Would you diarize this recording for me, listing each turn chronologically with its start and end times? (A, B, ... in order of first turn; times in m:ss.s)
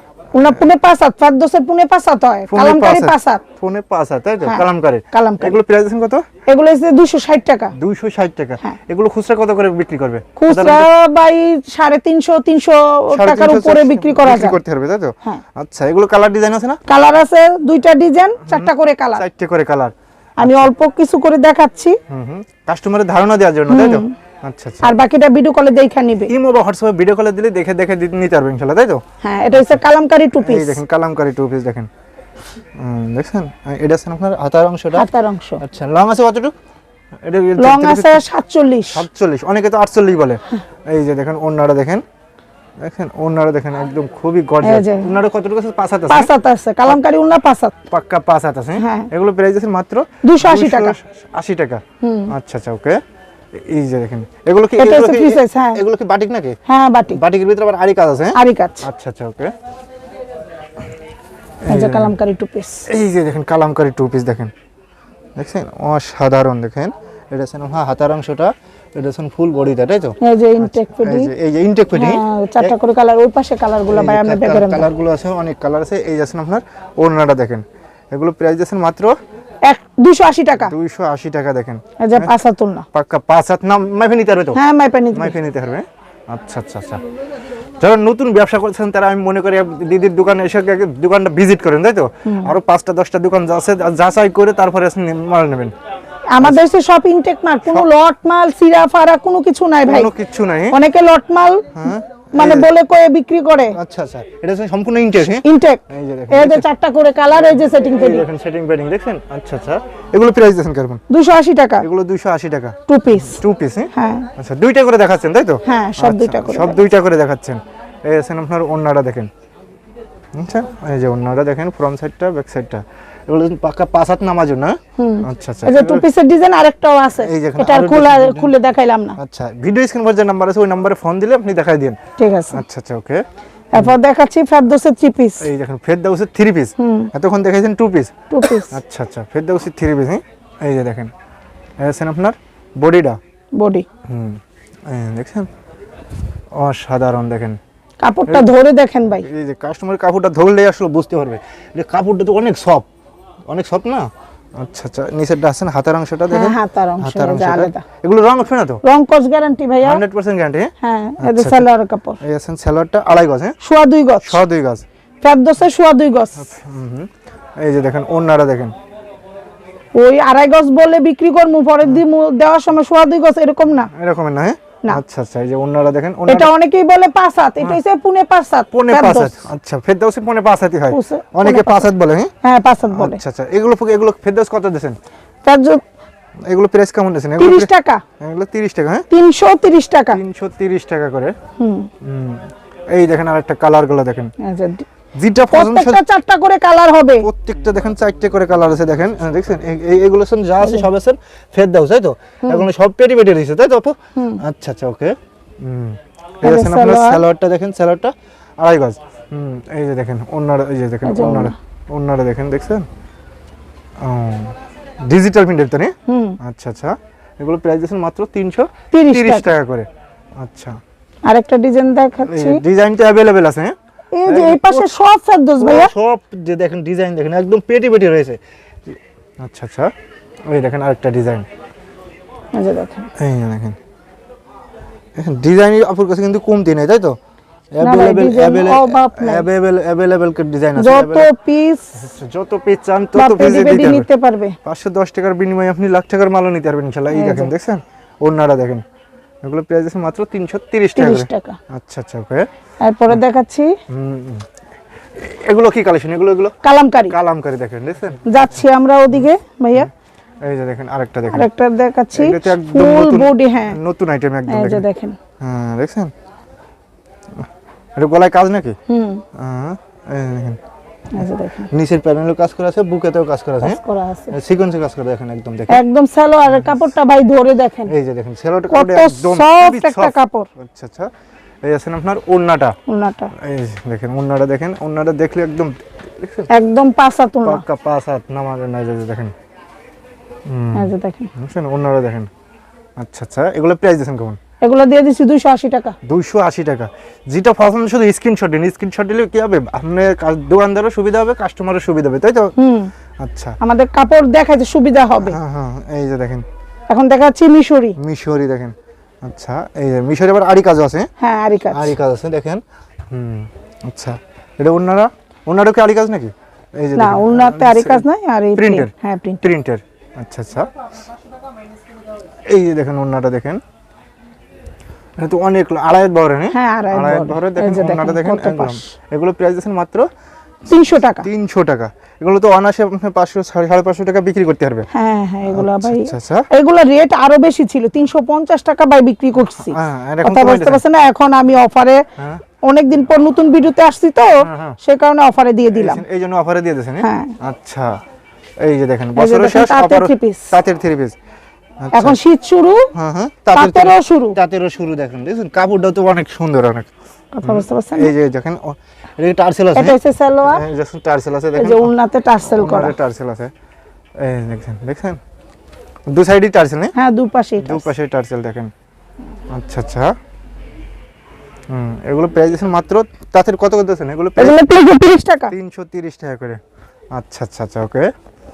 0:00.3-0:03.4 A
0:02.5-0:06.2 B
0:04.4-0:05.6 A
0:06.5-0:07.7 A
0:07.7-0:10.9 B
0:10.4-0:14.6 A
0:13.1-0:16.8 B
0:16.9-0:19.2 A
0:18.5-0:20.7 B
0:20.4-0:22.0 A
0:22.1-0:24.9 B
0:23.7-0:24.1 A
0:24.8-0:26.3 A
0:26.3-0:29.0 B
0:29.2-0:30.8 A
0:29.5-0:29.8 B
0:30.4-0:31.9 B
0:32.8-0:35.1 B
0:34.9-0:35.6 A
0:35.6-0:36.5 B
0:37.2-0:38.2 B
0:37.6-0:39.0 A
0:38.9-0:42.0 B
0:42.8-0:46.3 B
0:44.6-0:45.1 A
0:46.1-0:47.7 A
0:47.9-0:53.0 B
0:48.8-0:49.1 A
0:50.2-0:51.0 A
0:52.0-0:52.3 A
0:53.5-0:56.6 B
0:54.8-0:55.8 A
0:56.6-0:57.2 A
0:57.1-0:59.5 B
0:58.3-0:58.9 A
1:01.6-1:02.1 B
1:01.7-1:02.8 A
1:02.9-1:04.5 B
1:05.4-1:12.7 B
1:10.2-1:11.3 A
1:11.9-1:14.9 A
1:13.9-1:19.2 B
1:19.6-1:20.7 A
1:20.6-1:22.4 B
1:22.0-1:22.8 A
1:22.9-1:24.6 B
1:24.5-1:25.4 A
1:25.1-1:27.0 B
1:27.8-1:35.7 B
1:32.2-1:32.5 A
1:36.3-1:40.1 A
1:39.8-1:40.8 B
1:40.7-1:43.8 A
1:41.7-1:42.7 B
1:43.7-1:46.6 B
1:45.2-1:48.2 A
1:47.4-1:51.0 B
1:51.1-1:51.8 A
1:51.8-1:59.3 B
1:52.9-1:53.4 A
1:53.9-1:54.3 A
1:55.6-1:56.8 A
2:00.3-2:06.1 B
2:05.0-2:09.2 A
2:07.2-2:08.5 B
2:09.2-2:12.0 B
2:12.2-2:12.6 A
2:12.5-2:14.0 B
2:13.7-2:15.5 A
2:15.4-2:21.1 B
2:16.8-2:17.1 A
2:18.3-2:18.8 A
2:21.8-2:23.2 B
2:23.6-2:23.8 A
2:24.1-2:25.5 B
2:26.5-2:27.6 B
2:28.0-2:29.3 A
2:29.2-2:32.8 B
2:33.4-2:38.8 B
2:36.3-2:37.8 A
2:38.8-2:40.0 A
2:39.8-2:41.7 B
2:40.8-2:42.2 A
2:42.2-2:43.6 B
2:43.6-2:44.4 A
2:44.2-2:44.8 B
2:45.2-2:46.5 A
2:46.4-2:48.7 B
2:50.0-2:53.9 A
2:53.9-2:56.5 B
2:56.3-2:59.5 A
2:58.7-3:02.3 B
3:00.9-3:01.9 A
3:02.4-3:03.2 A
3:02.9-3:05.0 B
3:05.4-3:05.8 A
3:06.4-3:09.1 B
3:07.4-3:08.0 A
3:09.1-3:10.2 A
3:10.1-3:11.4 B
3:11.6-3:11.9 A
3:12.0-3:14.3 B
3:14.4-3:14.8 A
3:15.1-3:16.0 B
3:15.5-3:17.3 A
3:17.2-3:32.8 B
3:20.6-3:20.9 A
3:24.2-3:24.4 A
3:26.4-3:27.2 A
3:31.0-3:31.6 A
3:34.0-3:40.8 B
3:36.1-3:36.4 A
3:38.9-3:39.5 A
3:41.2-3:42.6 A
3:42.2-3:43.7 B
3:44.1-3:45.9 A
3:44.2-3:44.9 B
3:45.6-3:49.9 B
3:50.5-3:51.5 B
3:52.5-3:53.1 A
3:53.2-3:53.8 B
3:55.2-3:57.2 B
3:57.7-4:01.3 B
3:57.8-3:59.4 A
4:00.8-4:02.0 A
4:01.9-4:04.1 B
4:03.2-4:04.6 A
4:04.6-4:08.8 B
4:07.1-4:07.5 A
4:09.4-4:12.5 B
4:11.0-4:11.6 A
4:12.8-4:13.8 A
4:13.9-4:14.5 B
4:15.2-4:16.5 B
4:16.6-4:17.2 A
4:17.1-4:18.5 B
4:18.2-4:19.9 A
4:19.1-4:19.9 B
4:20.4-4:21.5 B
4:21.3-4:23.8 A
4:22.1-4:24.8 B
4:24.5-4:25.2 A
4:25.4-4:26.1 B
4:27.4-4:28.8 B
4:28.9-4:29.2 A
4:29.3-4:30.6 B
4:31.1-4:31.7 A
4:31.2-4:35.8 B
4:33.6-4:34.4 A
4:35.7-4:37.9 A
4:36.4-4:36.8 B
4:37.9-4:41.1 B
4:38.7-4:40.5 A
4:41.6-4:42.8 B
4:42.9-4:43.3 A
4:43.3-4:46.5 B
4:46.5-4:47.6 A
4:47.4-4:49.3 B
4:50.4-4:52.3 B
4:50.7-4:51.3 A
4:53.0-4:54.4 B
4:54.6-4:56.0 A
4:56.0-5:02.5 B
5:02.6-5:02.9 A
5:03.2-5:03.6 B
5:03.6-5:05.4 A
5:05.2-5:06.4 B
5:06.9-5:08.0 A
5:08.0-5:11.1 B
5:11.2-5:12.0 A
5:11.7-5:18.0 B
5:17.0-5:19.4 A
5:18.6-5:20.7 B
5:22.5-5:23.6 B
5:25.2-5:30.1 B
5:26.5-5:28.9 A
5:30.7-5:31.3 A
5:31.1-5:34.9 B
5:34.9-5:42.0 A
5:35.5-5:36.5 B
5:39.5-5:40.8 B
5:42.2-5:42.4 B
5:42.6-5:46.0 A
5:44.4-5:44.8 B
5:45.7-5:48.0 B
5:47.0-5:47.3 A
5:48.6-5:51.2 B
5:49.2-5:50.6 A
5:51.8-5:52.2 B
5:51.9-5:52.9 A
5:52.9-5:56.9 B
5:53.5-5:54.4 A
5:57.3-5:58.1 A
5:57.4-6:01.9 B
5:59.7-6:00.6 A
6:01.5-6:03.0 A
6:02.5-6:03.5 B
6:04.2-6:05.2 B
6:06.1-6:06.9 B
6:06.9-6:07.9 A
6:07.6-6:08.7 B
6:09.5-6:10.1 B
6:11.7-6:14.6 B
6:14.4-6:15.5 A
6:15.5-6:16.6 B
6:17.1-6:18.1 B